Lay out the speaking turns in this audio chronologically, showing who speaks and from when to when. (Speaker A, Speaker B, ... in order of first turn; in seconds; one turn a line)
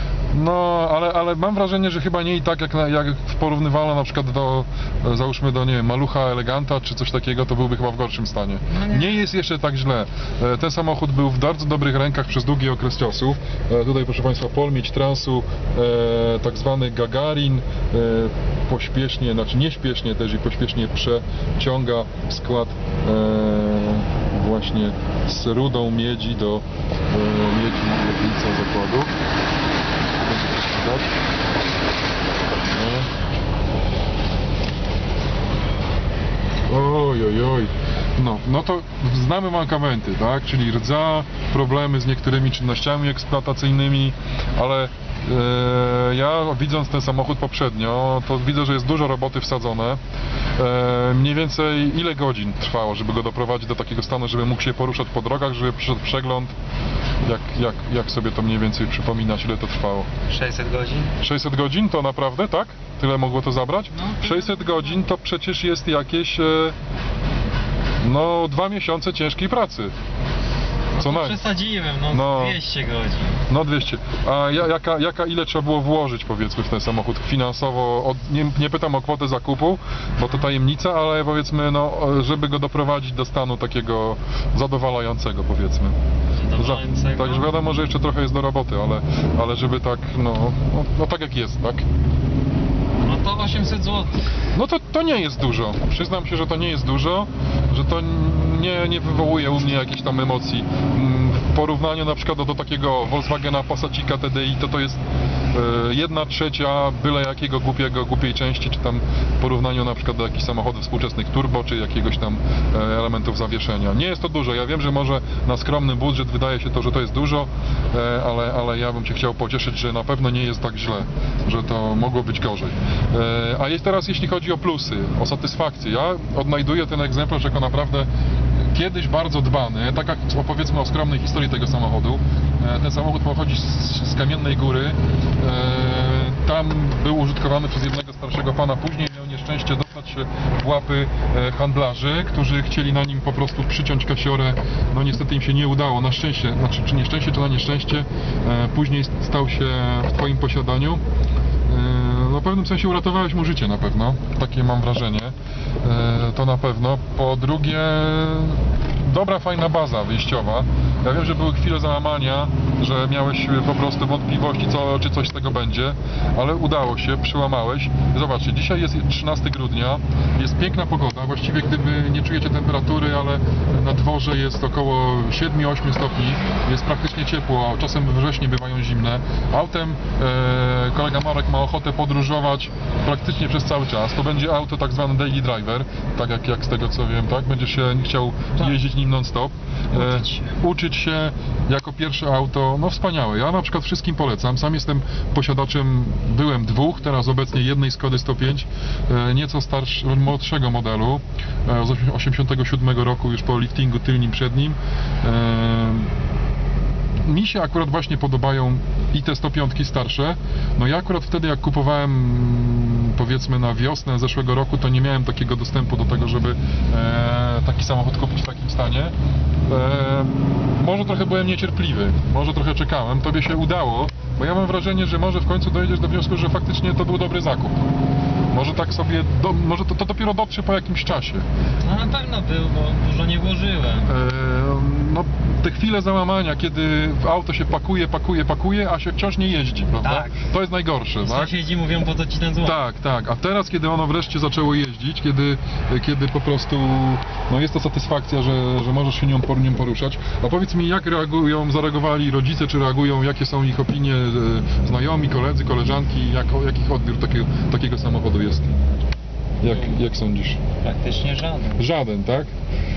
Speaker A: 0.3-29.2
Speaker B: 8.7-9.2
Speaker A: 30.2-31.2
Speaker A: 32.7-33.1
Speaker A: 36.7-50.0
Speaker A: 50.6-56.5
Speaker A: 57.2-60.1
Speaker B: 60.3-61.2
Speaker A: 61.2-66.8
Speaker B: 63.9-64.8
Speaker A: 68.0-69.9
Speaker B: 70.9-73.4
Speaker A: 71.0-71.4
Speaker A: 72.1-72.6
Speaker A: 73.5-86.0
Speaker B: 86.3-87.5
Speaker A: 86.6-91.8
Speaker B: 93.0-94.2
Speaker A: 94.5-128.1
Speaker A: 128.7-151.0
Speaker A: 151.7-206.1
Speaker B: 189.9-190.6
Speaker A: 207.3-219.1
Speaker A: 219.7-227.9
Speaker A: 228.5-231.4
Speaker B: 231.8-234.1
Speaker A: 234.1-241.5
Speaker B: 240.0-240.4
Speaker B: 241.2-242.8
Speaker A: 242.6-258.7
Speaker A: 259.6-260.6
Speaker B: 259.7-260.0
Speaker B: 260.8-261.9
Speaker A: 261.8-262.5